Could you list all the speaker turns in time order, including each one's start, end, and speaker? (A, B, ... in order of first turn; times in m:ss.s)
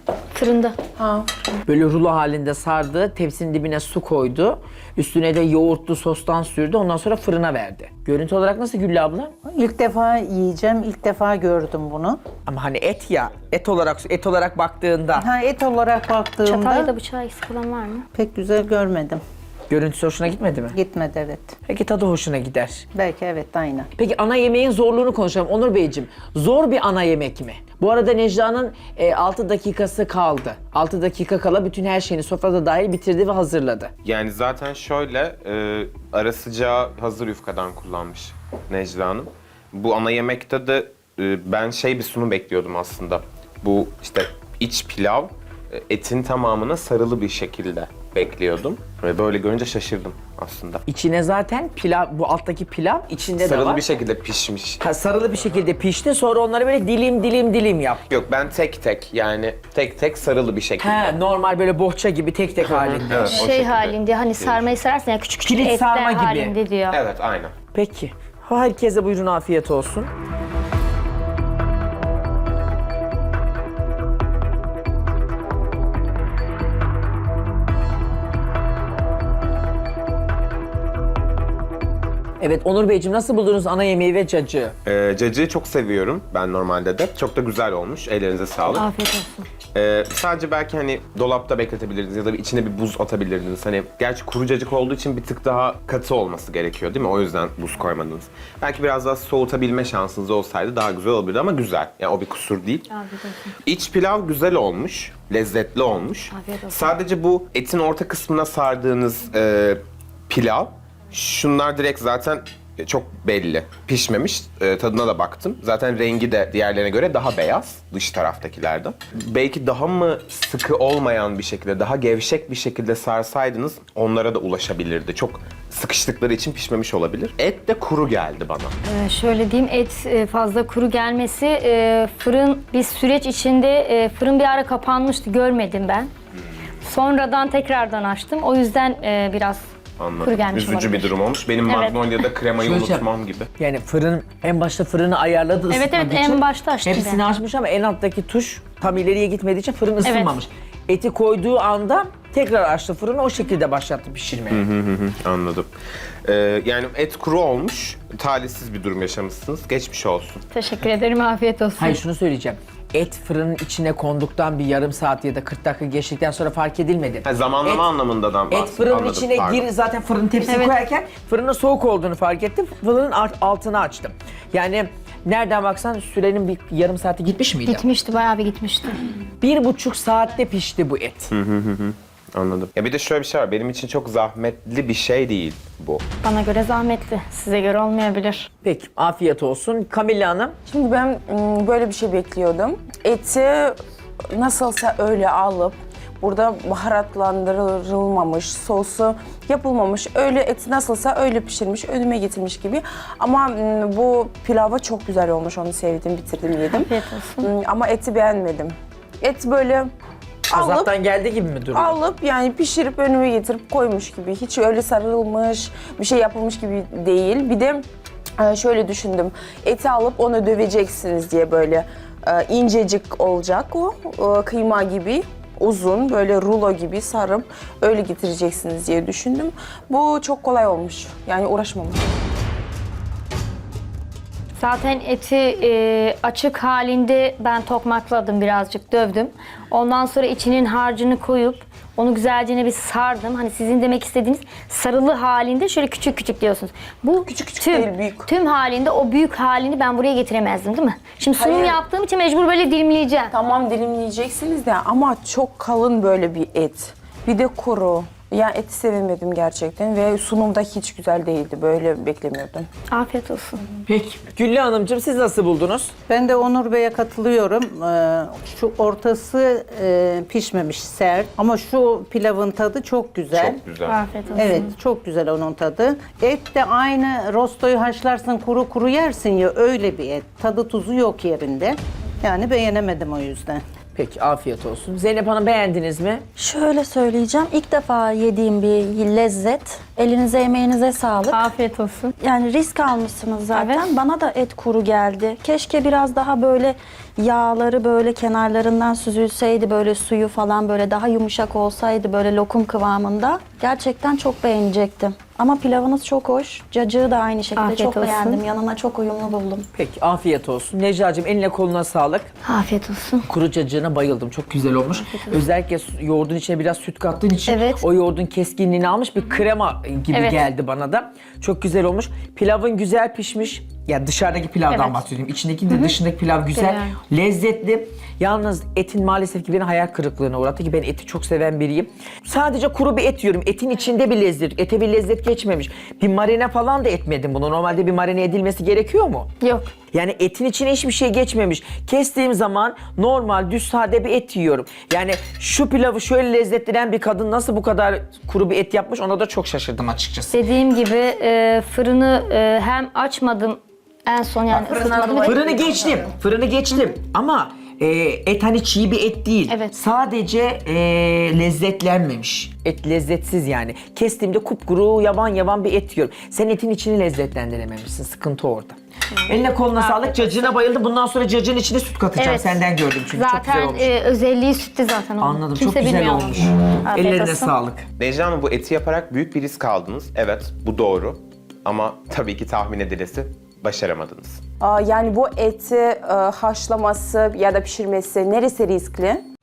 0:00.4-0:00.8 A
0:01.0-0:01.3 B
0:01.7-0:09.3 C
0:09.5-0:12.2 D
0:12.5-0:15.3 C
0:15.2-0:16.8 D
0:16.4-0:18.0 A
0:18.2-0:19.2 D
0:19.7-0:20.8 C
0:20.8-0:21.5 D
0:21.7-0:22.9 C
0:22.9-0:23.8 D
0:24.0-0:33.9 C
0:34.0-0:50.8 E
0:50.9-0:53.8 C
0:53.4-0:54.8 E
0:54.8-0:58.1 C
0:58.1-1:01.1 E
1:00.8-1:03.4 C
1:02.6-1:04.7 E
1:03.3-1:07.0 A
1:05.4-1:06.6 C
1:06.9-1:07.5 E
1:07.7-1:10.1 C
1:22.4-1:24.8 C
1:24.8-1:28.9 E
1:28.7-1:29.4 A
1:29.7-1:42.9 E
1:42.9-1:43.4 A
1:43.6-2:08.8 E
1:46.3-1:46.9 A
2:08.9-2:16.1 A
2:16.8-2:19.7 A
2:20.0-2:23.5 E
2:20.2-2:22.0 A
2:22.6-2:23.1 C
2:23.6-2:34.7 C
2:25.7-2:27.2 A
2:30.0-2:30.4 A
2:34.5-2:35.7 E
2:36.2-2:40.4 E
2:40.5-2:42.0 A
2:41.8-2:47.9 C
2:47.2-2:49.7 E
2:48.5-2:57.8 C
2:50.4-2:50.8 A
2:57.7-2:59.0 A
2:59.4-3:01.3 C
3:01.3-3:06.0 E
3:06.2-3:08.5 A
3:08.6-3:10.6 C
3:10.7-3:13.8 B
3:14.3-3:26.9 B
3:26.6-3:27.5 A
3:27.4-3:29.9 B
3:30.5-3:30.9 B
3:30.5-3:32.0 C
3:31.7-3:37.8 B
3:38.4-3:52.0 B
3:54.6-4:13.3 A
4:07.2-4:08.3 B
4:11.3-4:11.8 B
4:13.3-4:22.7 B
4:22.9-4:23.6 A
4:23.9-4:25.9 C
4:26.1-4:33.5 D
4:33.3-4:34.0 E
4:33.8-4:34.7 A
4:34.4-4:43.6 D
4:43.9-4:46.2 C
4:46.4-4:51.5 F
4:51.3-4:52.1 A
4:52.2-5:09.7 F
4:53.5-4:53.9 A
5:07.6-5:08.4 A
5:09.8-5:12.3 C
5:12.4-5:13.2 A
5:13.2-5:39.3 C
5:17.5-5:17.8 A
5:20.1-5:20.5 A
5:24.7-5:25.0 A
5:25.7-5:25.9 A
5:26.6-5:27.0 A
5:39.4-5:39.7 A
5:39.9-5:50.4 C
5:50.3-5:55.6 A
5:54.5-5:54.8 E
5:55.2-6:13.9 C
5:59.5-5:59.7 A
6:09.2-6:10.6 A
6:12.2-6:17.5 A
6:15.2-6:17.8 C
6:18.0-6:24.4 E
6:24.6-6:29.2 B